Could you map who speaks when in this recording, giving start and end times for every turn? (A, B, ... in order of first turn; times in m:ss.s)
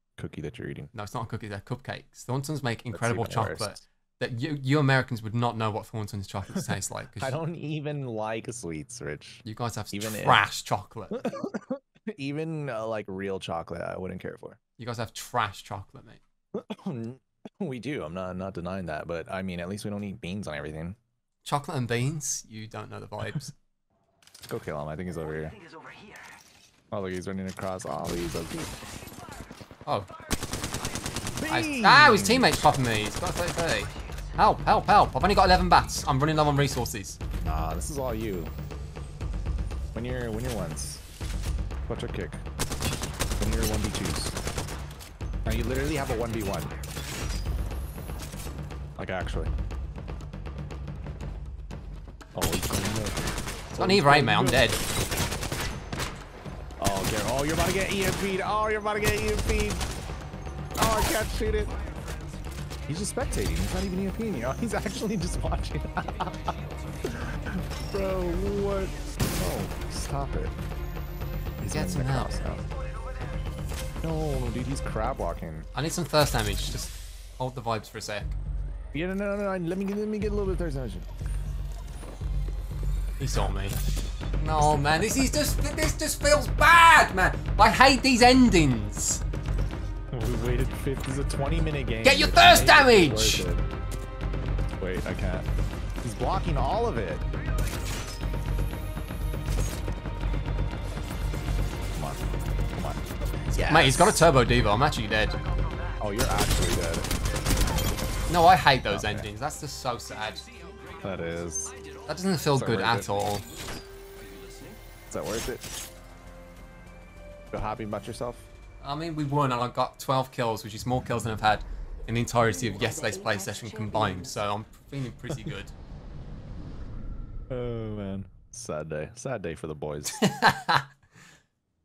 0:00.2-0:00.9 A
0:00.9-0:07.4 B
0:02.9-0:03.8 A
0:06.5-0:10.4 A
0:09.4-0:11.2 B
0:11.1-0:14.6 A
0:14.8-0:16.2 B
0:16.6-0:21.0 A
0:21.4-0:23.6 B
0:24.5-0:25.6 A
0:25.6-0:26.3 C
0:26.9-0:28.8 A
0:29.9-0:30.1 B
0:30.8-0:31.2 C
0:31.4-0:32.8 A
0:31.5-0:37.2 B
0:37.4-0:38.5 A
0:39.9-0:41.0 A
0:41.9-0:42.4 A
0:43.4-0:44.4 A
0:45.5-0:46.7 A
0:45.9-0:46.8 C
0:49.0-0:49.5 A
0:52.4-0:54.7 A
0:53.8-0:54.8 B
0:56.8-0:59.8 A
1:00.8-1:01.8 A
1:01.6-1:02.4 C
1:02.9-1:06.5 A
1:06.0-1:09.2 C
1:07.0-1:10.6 A
1:11.6-1:12.6 A
1:11.7-1:12.4 B
1:14.0-1:15.7 A
1:15.8-1:18.4 B
1:18.9-1:21.1 A
1:23.2-1:23.8 B
1:24.4-1:29.2 B
1:30.1-1:33.7 A
1:32.0-1:33.5 B
1:34.8-1:35.5 A
1:36.0-1:37.2 A
1:42.0-1:42.2 A
1:42.8-1:44.2 A
1:43.7-1:45.4 B
1:46.0-1:47.1 A
1:48.3-1:50.4 B
1:48.9-1:49.3 A
1:50.1-1:54.8 C
1:51.0-1:51.7 A
1:52.1-1:53.4 B
1:52.6-1:53.1 A
1:55.1-1:55.7 A
1:57.5-1:58.5 A
1:58.8-2:05.7 B
2:07.5-2:10.3 A
2:10.2-2:10.9 B